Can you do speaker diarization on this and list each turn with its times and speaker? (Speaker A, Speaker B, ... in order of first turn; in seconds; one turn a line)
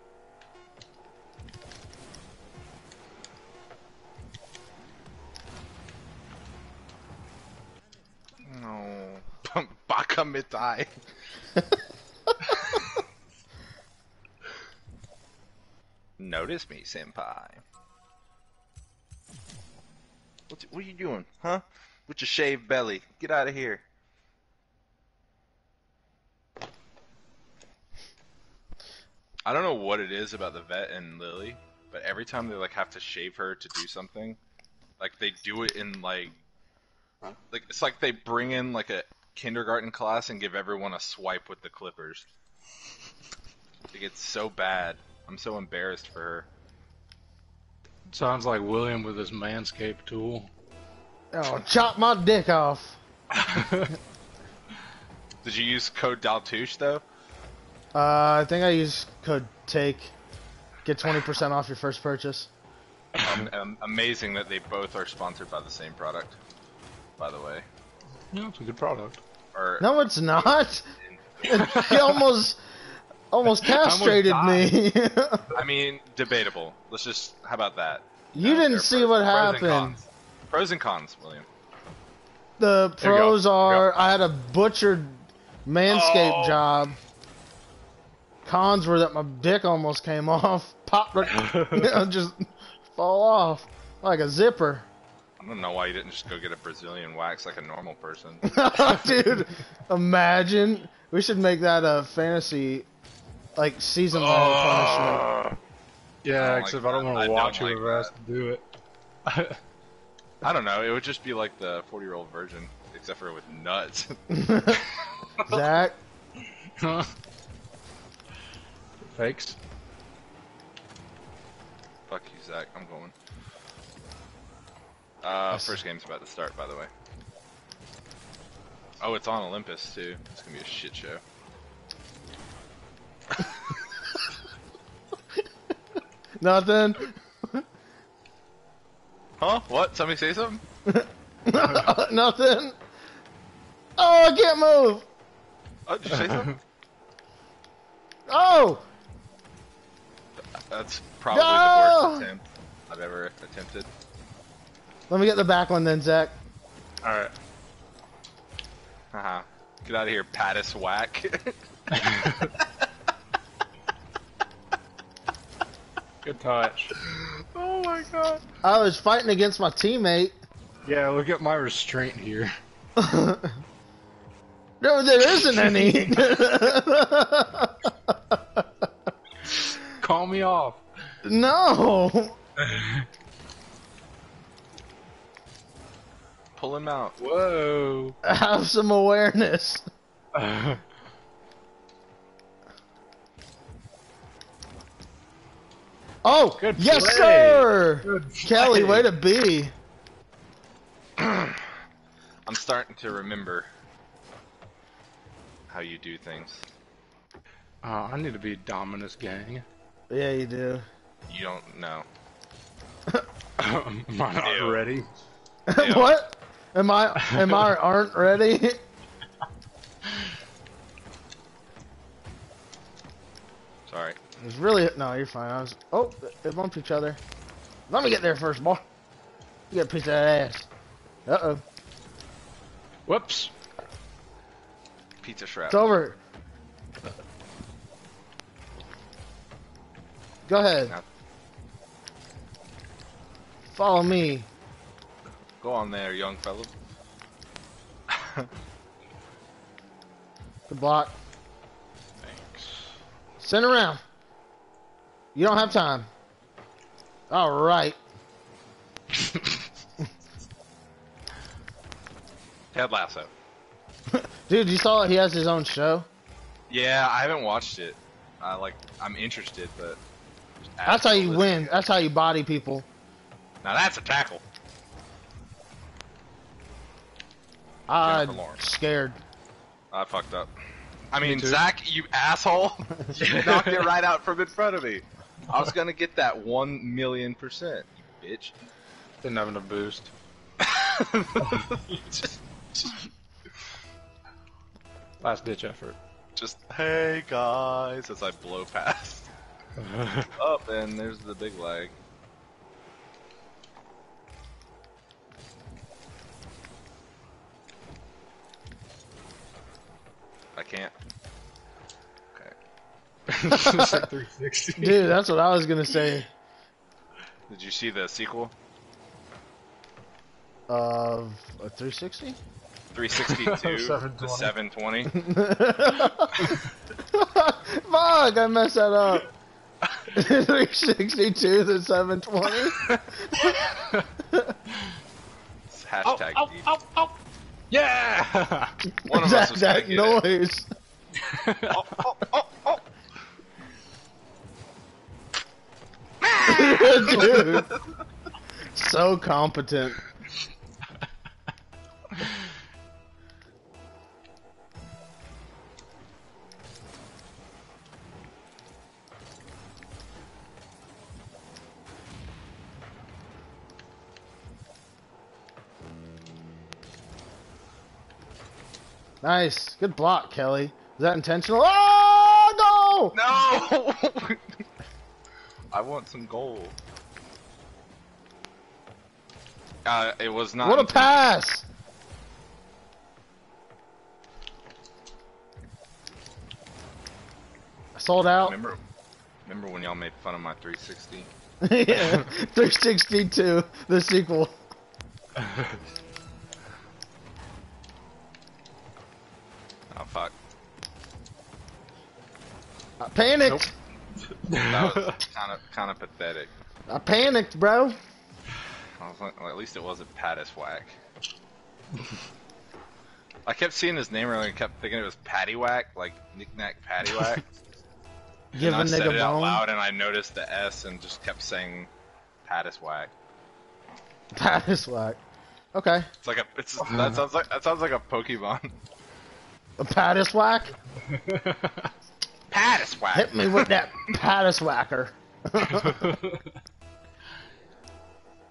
Speaker A: 8.4-10.9
Speaker A: 12.5-12.8
Speaker A: 16.2-17.6
Speaker A: 20.5-23.8
Speaker A: 29.4-34.4
Speaker A: 35.0-36.4
Speaker A: 37.5-42.2
Speaker A: 43.9-46.5
Speaker B: 48.1-50.5
Speaker C: 51.3-53.0
Speaker B: 53.3-54.0
Speaker A: 55.4-57.0
Speaker C: 57.9-60.1
Speaker C: 60.8-62.5
Speaker B: 63.1-63.5
Speaker A: 63.2-66.4
Speaker A: 67.2-67.7
Speaker B: 68.3-69.2
Speaker A: 69.5-72.1
Speaker C: 69.8-70.8
Speaker B: 71.5-72.0
Speaker C: 71.5-72.6
Speaker C: 73.3-75.5
Speaker B: 73.5-74.7
Speaker A: 75.5-81.5
Speaker C: 78.3-80.0
Speaker C: 82.6-87.0
Speaker B: 83.0-83.8
Speaker A: 85.9-86.8
Speaker C: 88.4-94.9
Speaker B: 91.3-91.9
Speaker A: 95.4-98.5
Speaker C: 98.4-102.9
Speaker C: 103.5-105.3
Speaker A: 104.2-105.3
Speaker B: 105.3-105.5
Speaker B: 106.2-108.6
Speaker A: 106.4-108.1
Speaker B: 109.2-109.6
Speaker A: 110.4-114.8
Speaker C: 114.3-114.8
Speaker C: 115.4-116.0
Speaker B: 116.8-117.1
Speaker B: 119.0-119.6
Speaker A: 122.1-123.1
Speaker A: 125.2-126.9
Speaker C: 125.5-125.8
Speaker A: 129.0-131.2
Speaker A: 133.4-133.8
Speaker C: 136.4-137.6
Speaker A: 139.4-140.6
Speaker C: 140.8-142.8
Speaker C: 144.0-145.1
Speaker A: 145.9-146.6
Speaker B: 146.2-146.5
Speaker C: 148.3-148.9
Speaker A: 150.5-153.9
Speaker C: 151.3-152.3
Speaker C: 155.1-156.3
Speaker B: 157.0-157.3
Speaker A: 159.1-161.6
Speaker B: 161.9-162.5
Speaker B: 166.2-166.9
Speaker A: 167.1-168.4
Speaker C: 168.6-170.3
Speaker B: 170.8-172.5
Speaker C: 172.9-173.6
Speaker C: 174.8-178.9
Speaker B: 179.6-180.8
Speaker C: 181.2-182.4
Speaker B: 182.6-183.1
Speaker A: 186.6-187.2
Speaker B: 187.2-188.2
Speaker C: 188.2-189.8
Speaker B: 190.3-190.8
Speaker C: 196.2-199.7
Speaker B: 196.6-199.1
Speaker A: 201.2-201.7
Speaker A: 202.4-203.7
Speaker A: 205.7-206.7
Speaker B: 207.8-209.6
Speaker C: 210.1-210.8
Speaker A: 211.3-212.1
Speaker B: 213.6-215.1
Speaker A: 214.4-214.8
Speaker C: 215.7-218.8
Speaker A: 215.8-216.2
Speaker B: 217.2-217.6
Speaker A: 223.9-224.2
Speaker C: 224.4-227.2
Speaker C: 227.9-228.8
Speaker C: 229.7-230.7
Speaker C: 231.2-231.6
Speaker B: 233.1-233.5
Speaker A: 235.2-235.8
Speaker C: 235.7-236.2
Speaker C: 240.5-240.9
Speaker C: 243.7-244.5
Speaker A: 245.6-246.7
Speaker A: 248.1-248.5
Speaker C: 250.7-251.1
Speaker B: 252.2-252.9
Speaker C: 253.4-254.0
Speaker C: 255.3-256.1
Speaker C: 257.3-258.0
Speaker A: 262.7-263.3
Speaker C: 264.1-266.1
Speaker A: 266.7-270.0
Speaker A: 270.8-271.7
Speaker C: 270.8-272.9
Speaker A: 273.6-274.4
Speaker C: 277.9-279.2
Speaker A: 278.0-278.6
Speaker A: 279.9-280.5
Speaker A: 281.1-288.5
Speaker B: 281.2-281.6
Speaker B: 283.1-283.9
Speaker B: 289.2-290.1
Speaker A: 290.6-293.0
Speaker B: 295.2-296.0
Speaker A: 296.4-299.3
Speaker B: 299.8-300.3
Speaker A: 300.4-301.9
Speaker A: 310.5-310.9
Speaker B: 313.3-315.2
Speaker C: 313.5-314.1
Speaker C: 314.8-316.2
Speaker A: 317.5-318.5
Speaker C: 320.7-322.4
Speaker A: 322.9-325.2
Speaker B: 323.1-324.5
Speaker C: 325.1-326.6
Speaker C: 327.1-329.3
Speaker C: 330.1-333.5
Speaker B: 333.4-334.1
Speaker C: 334.3-334.5
Speaker A: 335.7-336.7
Speaker B: 336.0-337.1
Speaker B: 337.7-338.8
Speaker C: 338.9-340.7
Speaker A: 339.0-340.2
Speaker B: 341.2-342.0
Speaker A: 341.7-342.8
Speaker A: 346.2-347.7
Speaker C: 346.4-347.7
Speaker C: 348.7-350.0
Speaker B: 352.1-352.4
Speaker C: 369.2-373.2
Speaker A: 373.1-374.6
Speaker A: 375.7-376.7
Speaker A: 379.8-381.2
Speaker C: 380.6-381.6
Speaker C: 387.9-388.5
Speaker A: 388.4-388.8
Speaker A: 389.4-391.3
Speaker C: 391.6-394.6
Speaker B: 395.4-395.8
Speaker A: 399.9-400.3
Speaker C: 403.0-403.7
Speaker B: 404.3-405.2
Speaker A: 404.6-406.5
Speaker C: 406.9-408.0
Speaker A: 409.0-410.9
Speaker A: 413.4-417.4
Speaker B: 417.1-417.4
Speaker C: 418.5-419.6
Speaker A: 418.6-421.9
Speaker A: 422.4-423.1
Speaker C: 424.3-425.2
Speaker C: 425.7-426.1
Speaker A: 426.2-428.7
Speaker B: 426.9-427.1
Speaker C: 429.8-430.7
Speaker B: 431.1-431.9
Speaker A: 432.5-433.8
Speaker C: 433.1-436.1
Speaker B: 435.6-436.6